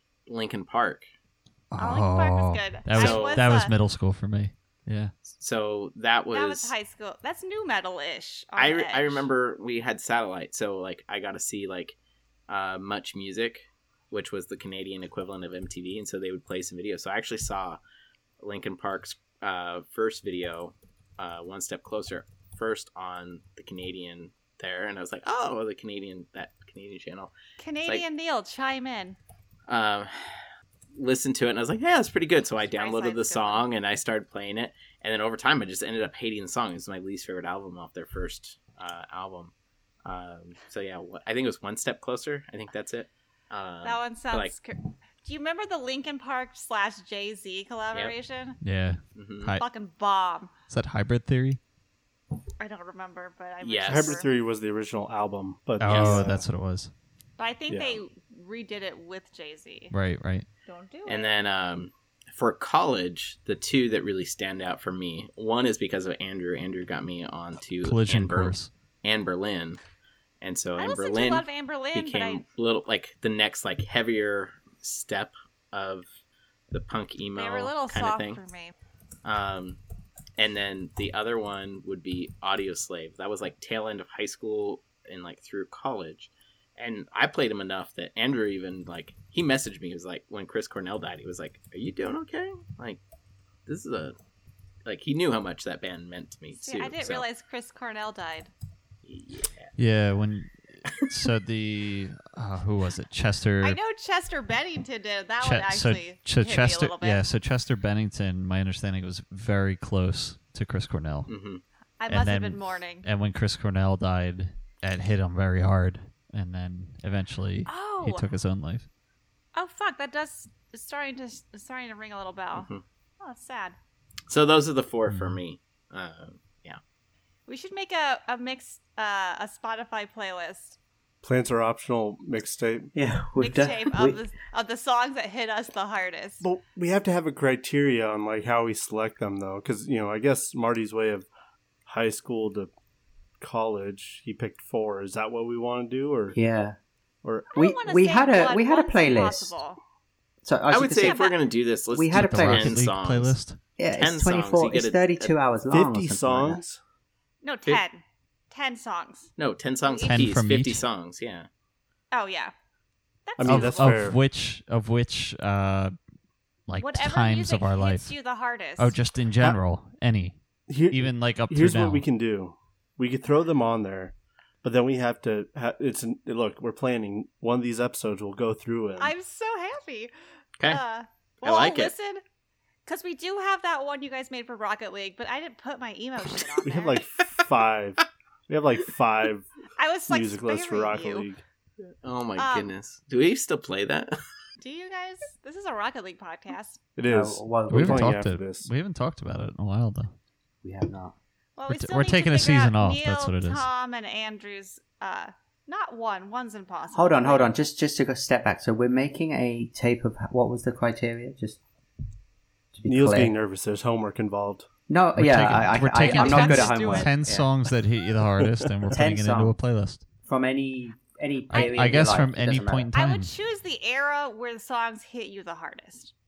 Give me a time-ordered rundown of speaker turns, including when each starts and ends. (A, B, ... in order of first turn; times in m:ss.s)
0:00.3-0:01.0 A
0:01.7-0:05.1 B
0:01.8-0:03.7 C
0:02.9-0:03.5 A
0:05.3-0:06.7 A
0:06.3-0:09.3 C
0:08.6-0:12.0 A
0:12.5-0:17.8 A
0:18.4-0:27.3 A
0:27.6-0:29.2 C
0:29.7-0:30.4 A
0:30.9-0:39.5 A
0:32.6-0:33.6 C
0:40.0-0:44.5 A
0:43.8-0:48.6 C
0:48.6-0:49.6 B
0:49.2-0:49.5 A
0:49.6-0:50.5 C
0:50.7-0:51.6 B
0:52.6-0:54.3 C
0:53.6-0:54.2 A
0:53.9-0:56.4 D
0:55.8-0:56.9 B
0:57.4-0:59.9 C
0:57.7-0:58.0 D
0:59.9-1:00.4 B
1:00.6-1:01.3 C
1:01.0-1:09.8 A
1:07.8-1:08.7 B
1:10.4-1:16.1 A
1:10.8-1:12.4 C
1:16.7-1:18.4 A
1:17.4-1:18.7 C
1:19.2-1:19.8 A
1:20.4-1:33.0 A
1:33.6-1:34.1 A
1:34.8-1:37.2 A
1:36.6-1:38.5 C
1:39.0-1:39.7 A
1:39.8-1:43.8 B
1:43.6-1:47.2 C
1:45.4-1:51.3 B
1:51.3-1:51.6 A
1:52.0-1:53.1 C
1:52.1-1:58.8 B
1:57.6-1:58.3 C
1:59.5-2:02.7 C
2:02.6-2:02.8 A
2:03.2-2:03.8 C
2:04.3-2:06.8 A
2:05.1-2:05.4 B
2:07.5-2:10.8 C
2:11.2-2:12.9 D
2:12.9-2:14.2 E
2:13.4-2:16.4 C
2:16.4-2:21.2 D
2:21.8-2:22.7 D
2:23.4-2:26.4 D
2:26.3-2:26.8 E
2:27.2-2:27.5 D
2:27.5-2:29.5 E
2:27.5-2:29.8 C
2:30.4-2:31.2 E
2:30.7-2:33.3 A
2:31.0-2:31.4 C
2:31.9-2:32.8 E
2:32.1-2:33.6 B
2:33.8-2:36.6 E
2:34.0-2:35.3 A
2:35.7-2:36.8 D
2:37.4-2:39.3 C
2:39.4-2:41.5 A
2:39.8-2:40.3 C
2:40.0-2:40.8 B
2:42.1-2:42.5 C
2:43.2-2:44.0 C
2:43.4-2:44.2 D
2:43.4-2:45.9 B
2:46.7-2:48.1 B
2:46.8-2:49.0 C
2:48.8-2:50.4 B
2:50.7-2:59.1 D
2:50.9-2:52.0 B
2:59.0-3:00.1 C
3:00.6-3:02.2 C
3:01.4-3:01.9 A
3:02.8-3:07.0 C
3:06.6-3:09.5 D
3:09.8-3:11.3 C
3:10.1-3:11.4 D
3:12.0-3:14.1 A
3:12.4-3:12.7 C
3:14.6-3:16.8 C
3:17.0-3:18.7 D
3:17.1-3:18.1 E
3:17.7-3:20.1 B
3:20.6-3:21.2 E
3:21.6-3:27.5 C
3:21.7-3:23.6 B
3:26.9-3:31.6 E
3:32.7-3:33.3 E
3:32.9-3:34.7 D
3:34.9-3:37.5 E
3:35.2-3:40.0 B
3:36.0-3:37.1 C
3:38.4-3:38.8 D
3:38.9-3:39.6 E
3:40.2-3:42.9 E
3:41.5-3:43.3 B
3:41.5-3:42.0 C
3:42.9-3:46.1 C